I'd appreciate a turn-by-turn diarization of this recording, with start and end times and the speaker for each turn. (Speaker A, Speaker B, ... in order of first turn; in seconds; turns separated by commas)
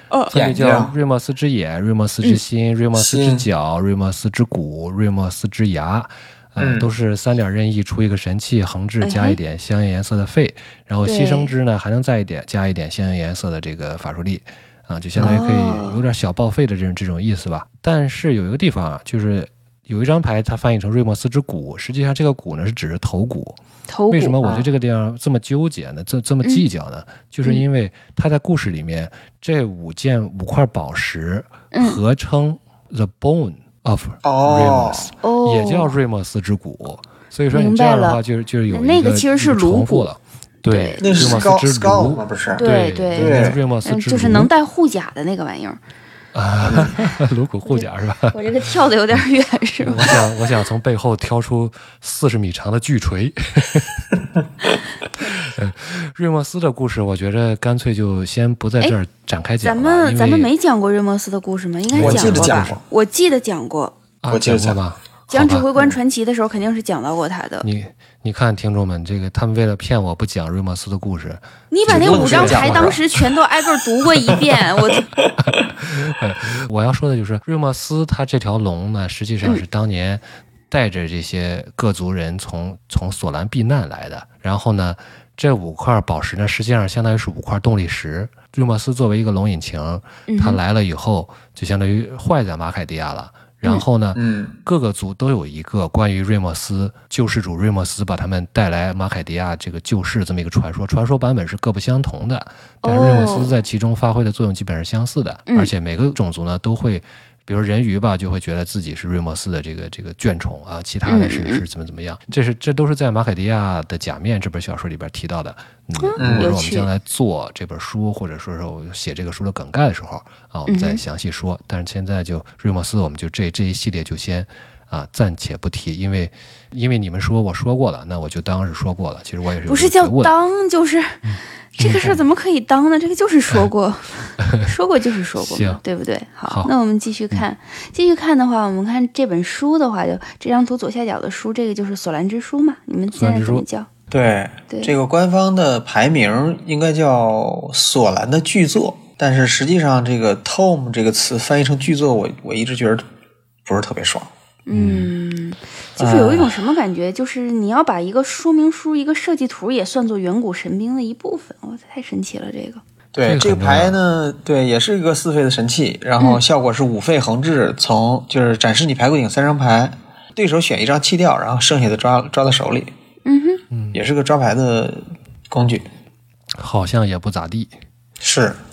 Speaker A: 0.3-23.6, Speaker B: 0.3-0.9, Speaker B: 2.9-3.5, Speaker B: 6.6-6.9, Speaker C: 9.0-9.4, Speaker C: 11.1-11.5, Speaker B: 15.1-15.4, Speaker C: 15.2-16.0, Speaker C: 23.9-24.4, Speaker A: 24.1-44.5, Speaker B: 24.4-24.7, Speaker C: 31.7-32.0, Speaker B: 34.2-35.1, Speaker C: 35.2-36.0, Speaker C: 37.5-40.1, Speaker C: 40.6-41.5, Speaker B: 41.0-43.6, Speaker C: 42.6-45.8, Speaker A: 46.3-48.4, Speaker C: 47.6-50.2, Speaker A: 49.8-54.1, Speaker A: 55.2-60.5, Speaker C: 59.6-63.9, Speaker A: 61.9-62.8, Speaker B: 62.0-62.8, Speaker A: 64.2-65.7, Speaker B: 64.3-64.8, Speaker C: 65.3-67.7, Speaker A: 67.6-73.2, Speaker C: 71.7-75.1, Speaker B: 71.9-73.0, Speaker A: 75.4-130.3, Speaker C: 90.3-90.6, Speaker B: 94.1-94.5, Speaker C: 102.8-103.6, Speaker C: 111.0-111.6, Speaker C: 115.9-116.9, Speaker B: 116.2-116.5, Speaker C: 120.7-121.0, Speaker C: 129.7-131.2, Speaker A: 131.2-132.2, Speaker C: 131.8-143.9, Speaker A: 135.4-135.8, Speaker A: 143.1-143.6, Speaker B: 144.1-153.0, Speaker B: 153.7-154.3, Speaker C: 154.7-162.8, Speaker A: 154.7-155.1, Speaker B: 156.0-156.6, Speaker B: 163.1-172.9, Speaker A: 163.2-164.0, Speaker C: 173.2-173.6, Speaker A: 173.7-174.0, Speaker B: 173.9-175.8, Speaker A: 176.6-177.7, Speaker B: 178.2-178.6